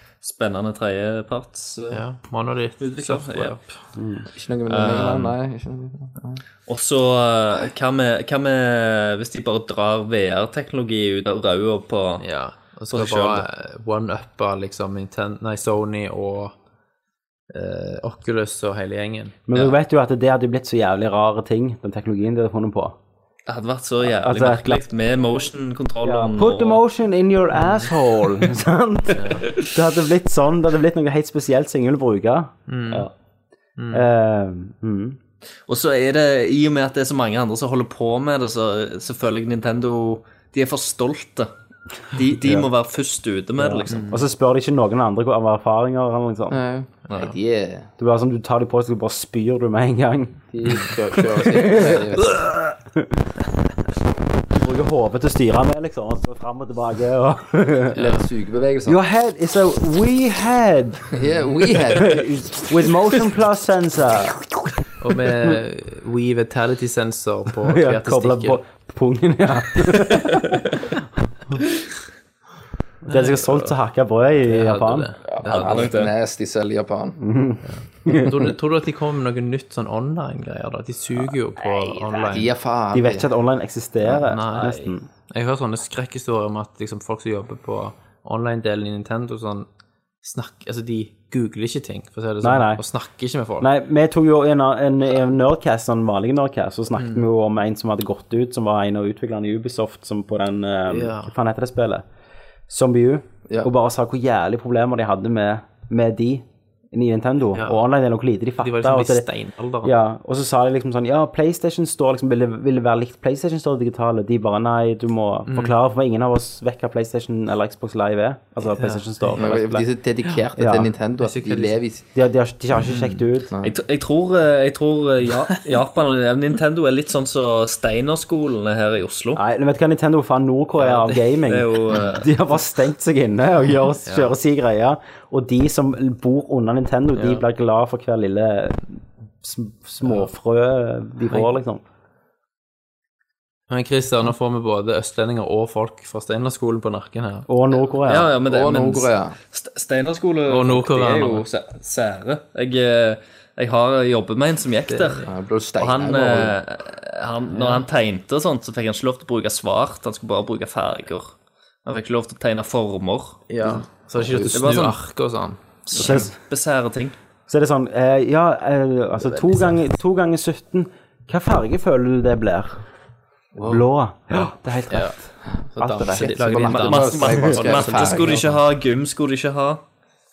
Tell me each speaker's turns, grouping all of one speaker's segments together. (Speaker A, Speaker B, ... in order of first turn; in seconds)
Speaker A: 0.2-2.0, 2.8-3.6, 4.7-5.3, 6.7-12.2, 12.9-13.5, 23.5-26.8, 35.7-41.5, 42.1-44.1, 75.3-76.1, 123.6-129.4, 131.4-132.3, 148.1-155.3, 155.8-163.4, 164.5-165.0, 165.9-167.2, 176.6-179.8
Speaker B: 1.9-3.7, 12.2-16.5, 17.5-19.5, 27.6-27.9, 29.1-29.5, 32.7-33.1, 33.8-34.1, 43.9-44.2, 58.0-58.2, 65.0-68.6, 73.1-73.7, 74.5-76.0, 77.7-82.5, 84.1-89.7, 90.2-93.7, 97.0-97.2, 100.9-101.3, 107.5-107.8, 108.6-109.9, 115.5-115.7, 118.8-119.4, 121.2-121.8, 130.9-131.3, 134.1-134.4, 137.2-137.4, 140.0-140.3, 143.7-147.5, 150.5-151.5, 154.9-155.3, 157.5-157.9, 163.5-166.2, 169.3-169.7, 174.9-175.2, 175.8-178.6
Speaker C: 4.0-4.3, 19.5-23.0, 24.0-24.8, 26.0-33.1, 33.9-35.2, 43.6-46.6, 48.0-50.9, 51.5-53.1, 54.5-58.1, 58.9-61.2, 61.9-64.6, 67.7-70.6, 73.1-75.1, 77.2-78.4, 82.9-85.1, 92.4-92.8, 93.6-102.0, 102.7-109.3, 109.8-119.9, 120.6-120.9, 122.1-123.5, 129.3-141.8, 147.5-148.3, 165.9-166.3, 167.5-172.8, 173.7-176.3
Speaker D: 4.3-6.4, 46.5-47.9, 50.5-52.5, 58.0-59.0, 61.1-62.5, 75.4-77.2, 82.1-83.3, 119.4-122.0, 123.5-123.8, 148.4-149.4, 155.2-156.6, 164.1-164.6, 173.6-173.8, 175.8-178.4